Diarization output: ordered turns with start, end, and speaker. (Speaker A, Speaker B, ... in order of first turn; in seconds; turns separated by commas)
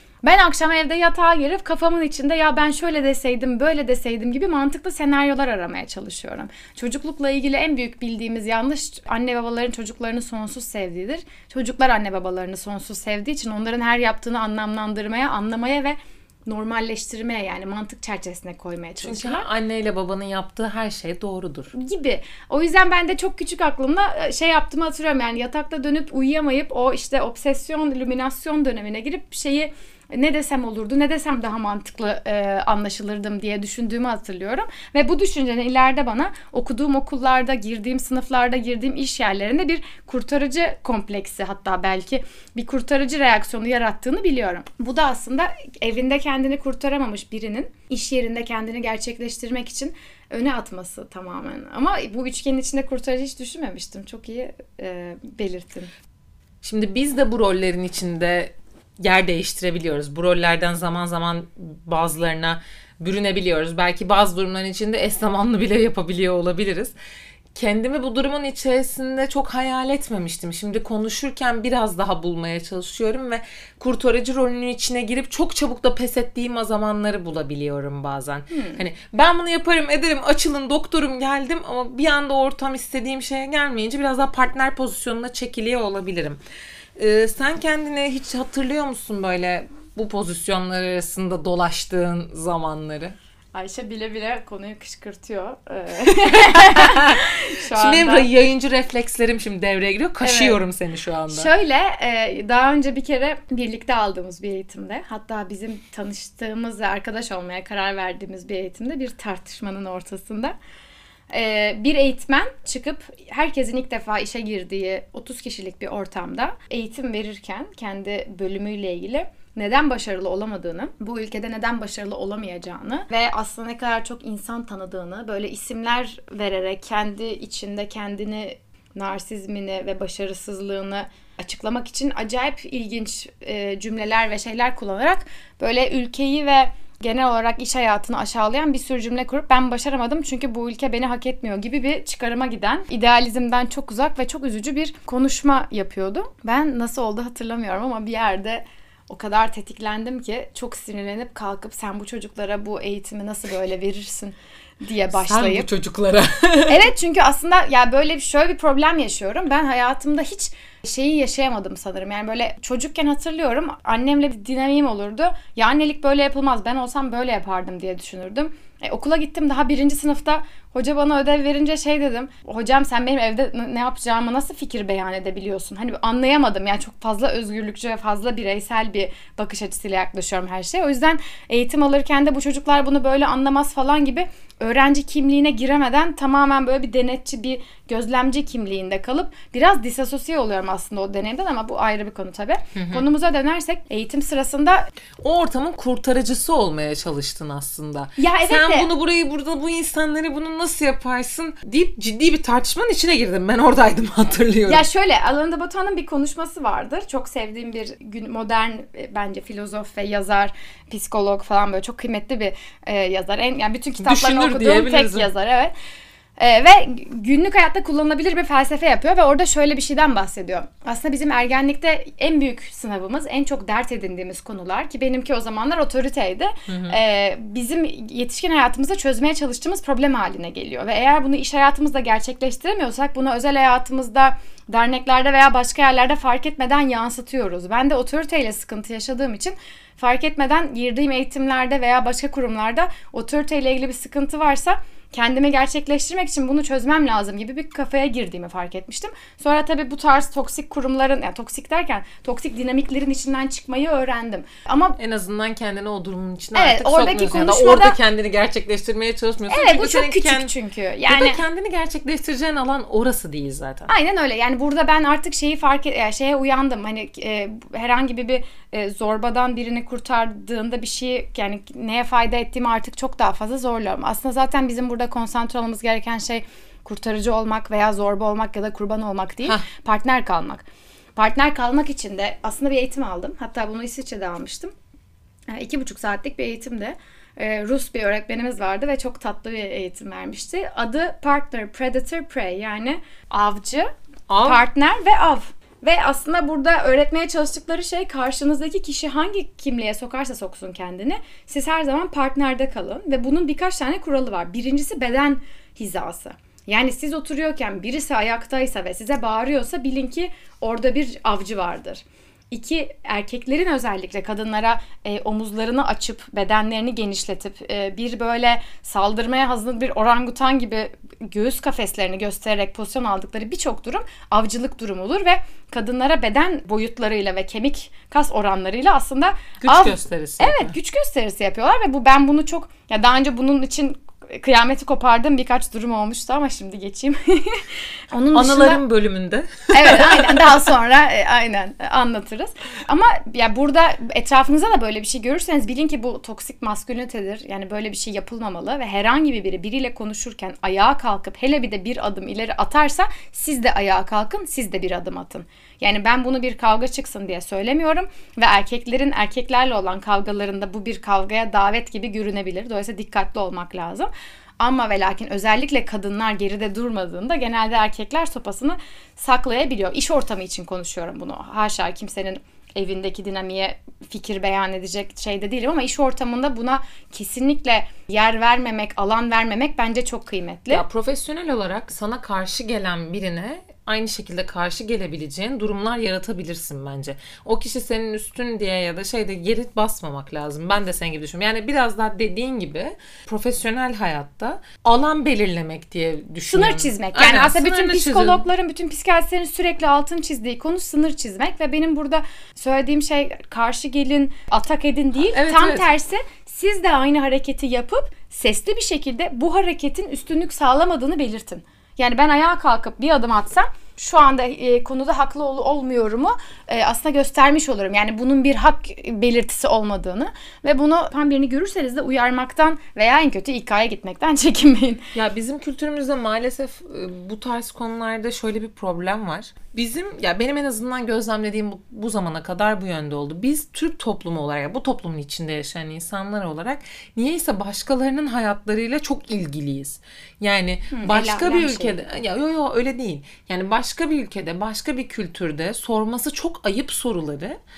Speaker A: 0.2-19.5, Speaker B: 19.0-21.7, Speaker A: 21.7-55.9, Speaker B: 56.6-66.9, Speaker B: 67.5-86.4, Speaker A: 78.5-78.8, Speaker B: 87.0-93.1, Speaker A: 93.5-98.3, Speaker B: 96.2-101.5, Speaker A: 100.2-100.6, Speaker A: 101.3-110.5, Speaker A: 111.3-155.7, Speaker B: 155.1-156.9, Speaker A: 156.7-194.9, Speaker B: 192.7-193.0, Speaker B: 195.2-204.8, Speaker A: 198.2-198.9, Speaker A: 204.7-215.7, Speaker B: 214.0-215.3, Speaker A: 216.4-255.0, Speaker B: 226.7-227.0, Speaker B: 255.0-260.5, Speaker A: 256.5-258.0, Speaker A: 259.5-261.4, Speaker B: 261.1-263.9, Speaker A: 263.9-284.7, Speaker A: 285.5-293.9, Speaker B: 294.3-294.6, Speaker A: 294.4-338.8, Speaker B: 329.6-330.7, Speaker B: 338.3-340.5, Speaker A: 339.7-380.8, Speaker B: 380.7-398.4, Speaker A: 396.5-425.0, Speaker B: 405.3-405.9, Speaker B: 425.1-447.6, Speaker A: 440.9-442.0